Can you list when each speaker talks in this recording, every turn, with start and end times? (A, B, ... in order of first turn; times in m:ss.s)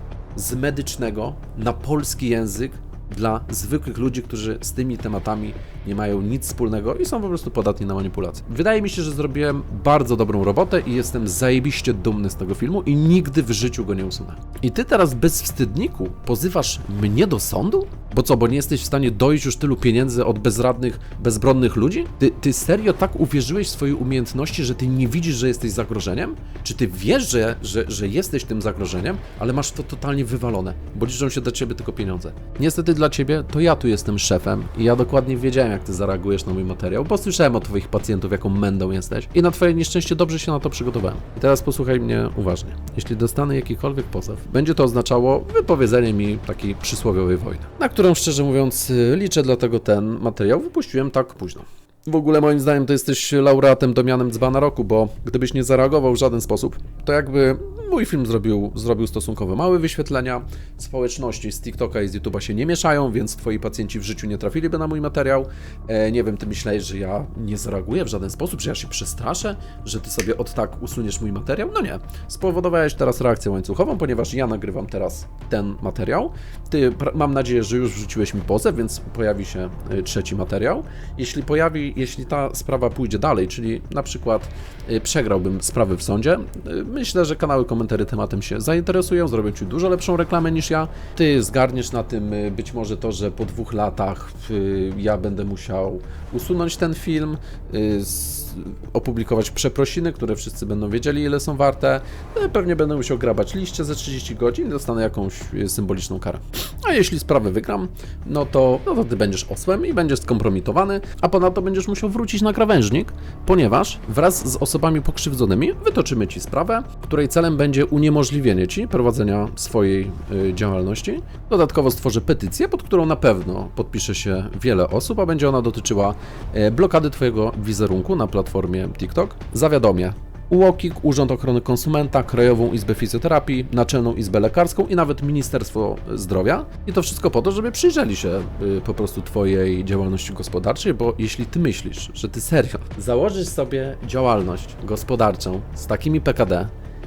0:00.4-2:26.7 A